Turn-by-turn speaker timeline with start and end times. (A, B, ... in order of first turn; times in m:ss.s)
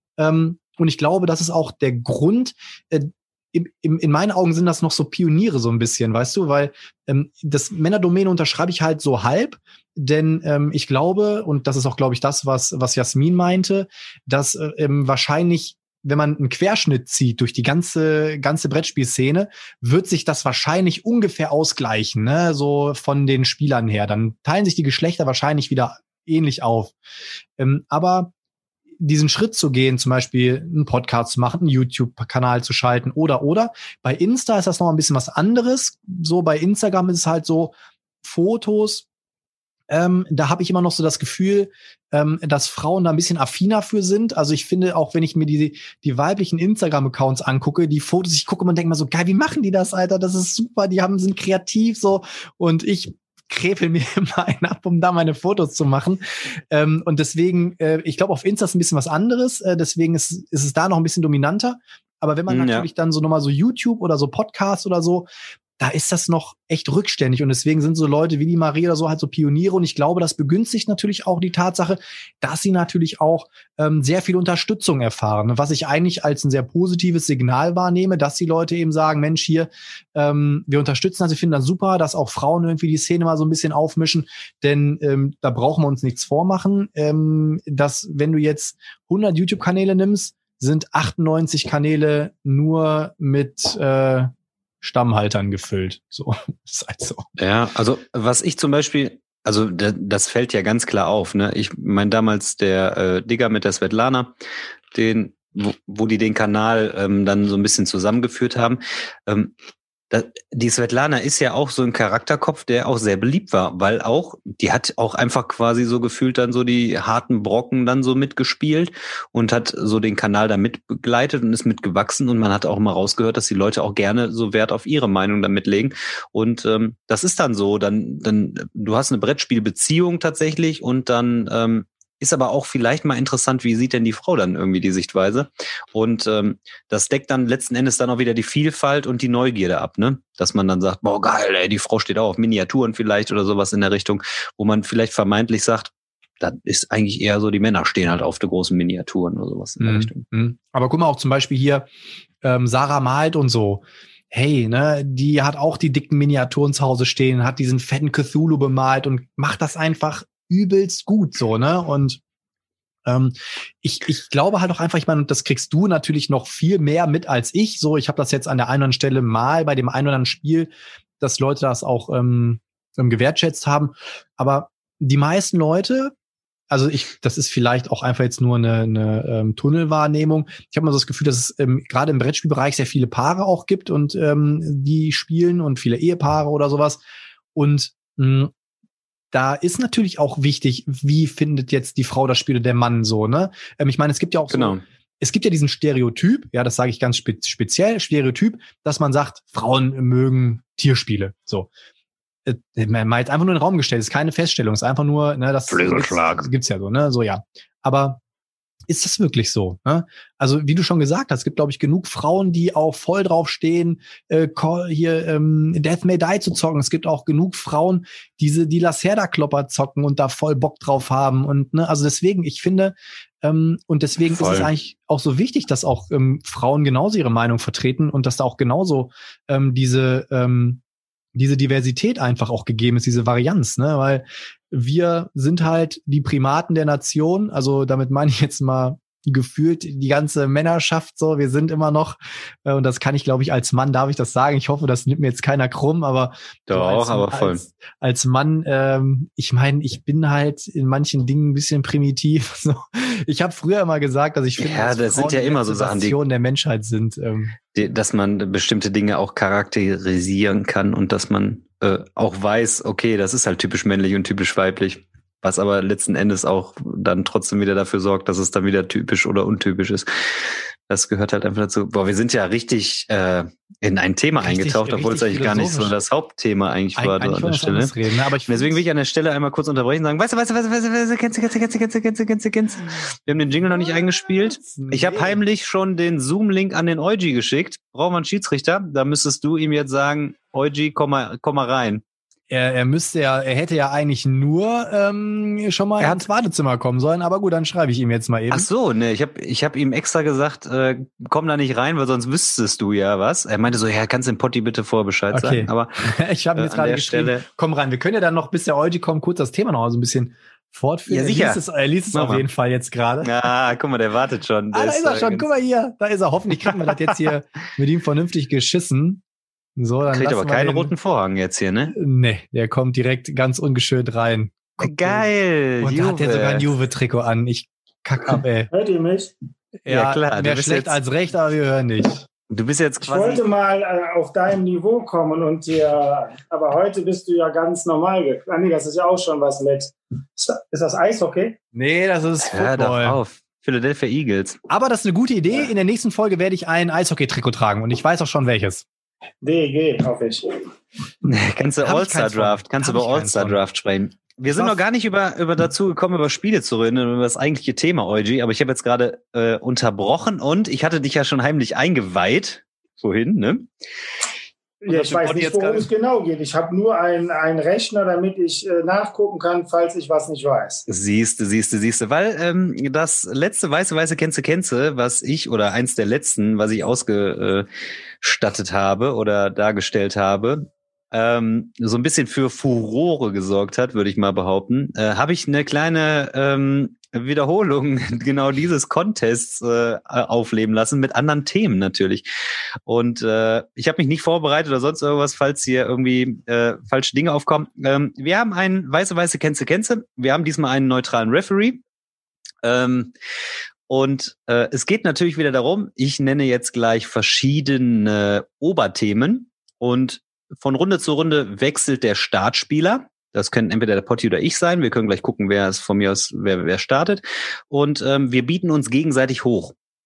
0:00.2-0:26.9 A
0:27.6-0:28.3 A
0:29.0-0:39.0 A
0:39.9-1:05.3 A
1:02.5-1:02.9 B
1:05.8-1:34.3 A
1:34.8-1:37.3 A
1:37.4-1:44.3 B
1:44.9-1:49.5 B
1:50.1-2:30.2 B
2:29.8-2:31.9 A
2:32.4-2:42.2 A
2:43.0-2:56.1 A
2:56.7-3:07.0 A
3:07.5-3:08.5 A
3:09.3-3:21.7 A
3:14.5-3:14.8 B
3:22.4-3:28.2 A
3:25.7-3:26.5 B
3:28.9-3:50.8 A
3:44.3-3:44.7 B
3:51.3-4:17.6 A
4:06.7-4:07.6 B
4:14.6-4:16.2 B
4:17.7-4:37.9 B
4:34.4-4:35.9 A
4:36.9-4:38.8 A
4:38.5-4:52.0 B
4:44.7-4:45.4 A
4:52.5-4:58.7 A
4:56.0-4:56.2 B
4:58.5-5:05.9 B
5:05.3-5:13.4 A
5:06.5-5:07.4 B
5:11.1-5:11.6 B
5:12.1-5:12.4 B
5:13.2-5:15.5 B
5:14.7-5:19.2 A
5:19.8-5:20.9 A
5:20.1-5:21.9 B
5:21.9-5:25.3 A
5:24.8-5:26.7 B
5:25.8-5:28.7 A
5:28.7-5:29.3 C
5:29.8-5:32.2 A
5:29.9-5:31.0 B
5:32.5-5:33.4 B
5:33.0-5:41.6 C
5:41.7-5:43.2 A
5:42.4-5:44.6 B
5:44.7-5:48.8 A
5:49.4-5:50.7 C
5:51.2-6:03.7 B
5:51.8-5:53.6 A
5:54.5-5:54.8 A
6:04.8-6:10.8 C
6:04.9-6:05.9 B
6:10.9-6:17.7 B
6:18.2-6:32.2 B
6:32.8-6:41.8 B
6:42.6-6:43.1 B
6:43.9-6:59.8 B